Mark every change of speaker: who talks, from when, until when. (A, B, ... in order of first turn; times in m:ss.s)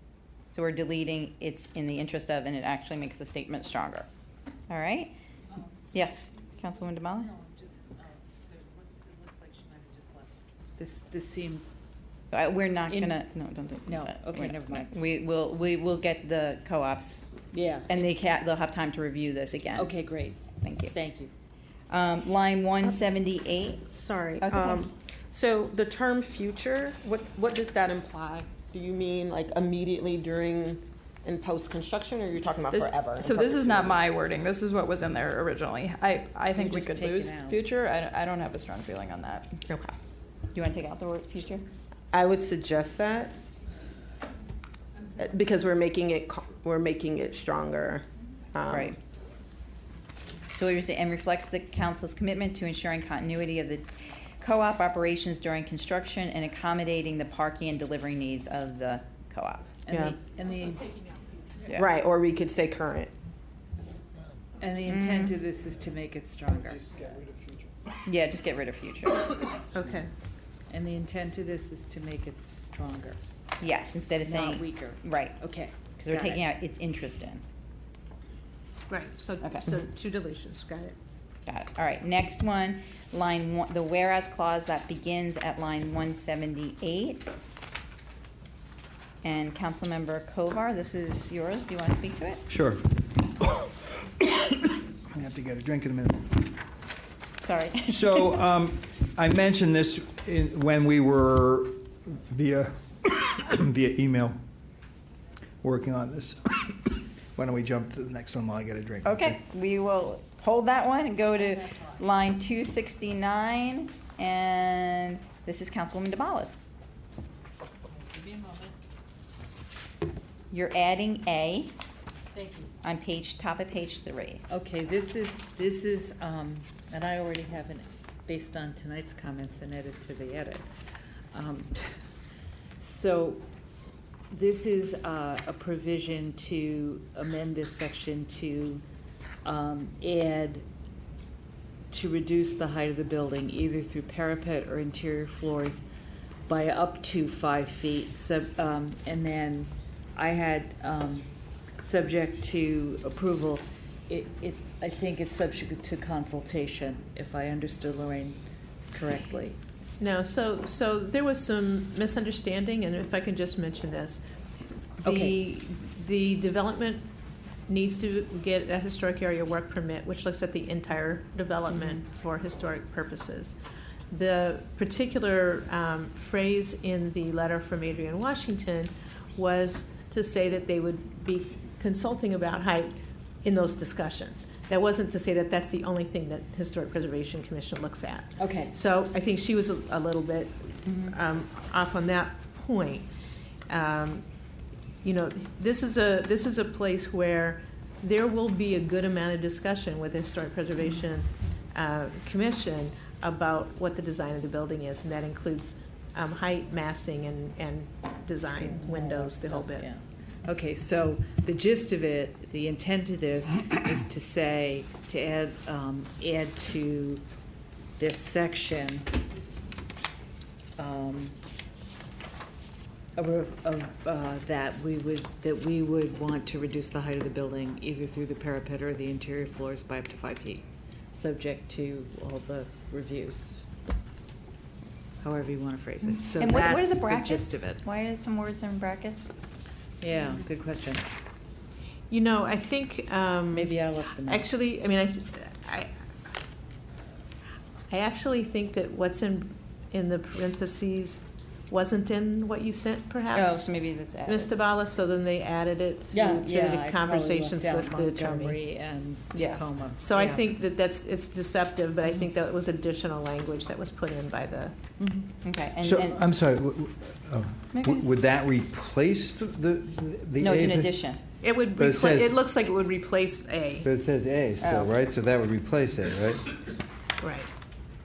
0:00.5-0:04.1 A
0:04.7-0:05.1 A
0:05.9-0:07.3 A
0:07.3-0:11.6 B
0:12.3-0:17.4 A
0:12.9-0:13.2 B
0:13.9-0:14.9 B
0:17.5-0:18.0 B
0:17.9-0:19.9 A
0:19.8-0:20.4 B
0:20.6-0:21.0 A
0:20.9-0:21.3 B
0:21.9-0:23.9 A
0:23.9-0:34.0 C
0:24.4-0:24.8 A
0:32.7-0:39.6 D
0:36.6-0:37.6 B
0:39.7-0:40.0 C
0:40.5-0:41.6 A
0:42.1-0:43.4 C
0:45.2-0:49.0 C
0:48.7-0:49.0 A
0:50.5-0:53.9 A
0:54.4-0:59.8 A
0:59.9-1:01.0 B
0:59.9-1:00.2 C
1:01.7-1:03.1 C
1:04.6-1:06.8 B
1:04.9-1:05.3 A
1:06.7-1:07.8 E
1:08.0-1:09.4 A
1:09.7-1:10.1 F
1:10.7-1:13.2 B
1:13.6-1:15.4 A
1:14.2-1:16.4 B
1:16.0-1:17.4 A
1:18.9-1:21.0 F
1:19.4-1:19.8 A
1:21.5-1:27.3 A
1:29.2-1:32.4 A
1:32.5-1:36.5 E
1:37.4-1:38.3 A
1:37.9-1:44.4 E
1:45.6-1:49.4 E
1:49.0-1:56.6 A
1:57.9-1:58.8 B
2:00.5-2:01.7 A
2:02.3-2:02.7 B
2:02.8-2:04.4 A
2:04.5-2:10.6 B
2:11.3-2:11.8 B
2:12.8-2:13.4 B
2:14.3-2:18.8 B
2:19.4-2:20.6 B
2:21.9-2:25.8 B
2:26.5-2:31.3 B
2:31.8-2:38.4 B
2:38.9-2:39.6 B
2:40.0-2:44.2 F
2:45.0-2:47.1 F
2:45.0-2:45.4 B
2:47.7-2:53.6 F
2:54.1-3:02.9 F
3:03.4-3:13.1 F
3:08.4-3:08.7 B
3:13.7-3:14.2 F
3:15.0-3:29.9 F
3:28.5-3:37.2 B
3:38.0-3:39.1 B
3:40.8-3:41.4 B
3:43.2-3:53.6 B
3:55.2-3:57.8 B
3:56.4-3:59.3 A
4:00.0-4:01.0 B
4:02.1-4:05.9 F
4:03.5-4:04.5 B
4:07.9-4:13.7 F
4:13.3-4:14.5 A
4:14.3-4:18.6 F
4:16.1-4:20.5 B
4:19.3-4:19.6 A
4:20.0-4:24.7 F
4:25.0-4:25.3 B
4:25.4-4:26.2 A
4:25.8-4:30.9 E
4:27.7-4:28.1 A
4:30.4-4:31.2 A
4:31.4-4:33.9 F
4:31.8-4:32.4 E
4:33.8-4:36.5 E
4:34.6-4:34.9 A
4:37.2-4:37.5 F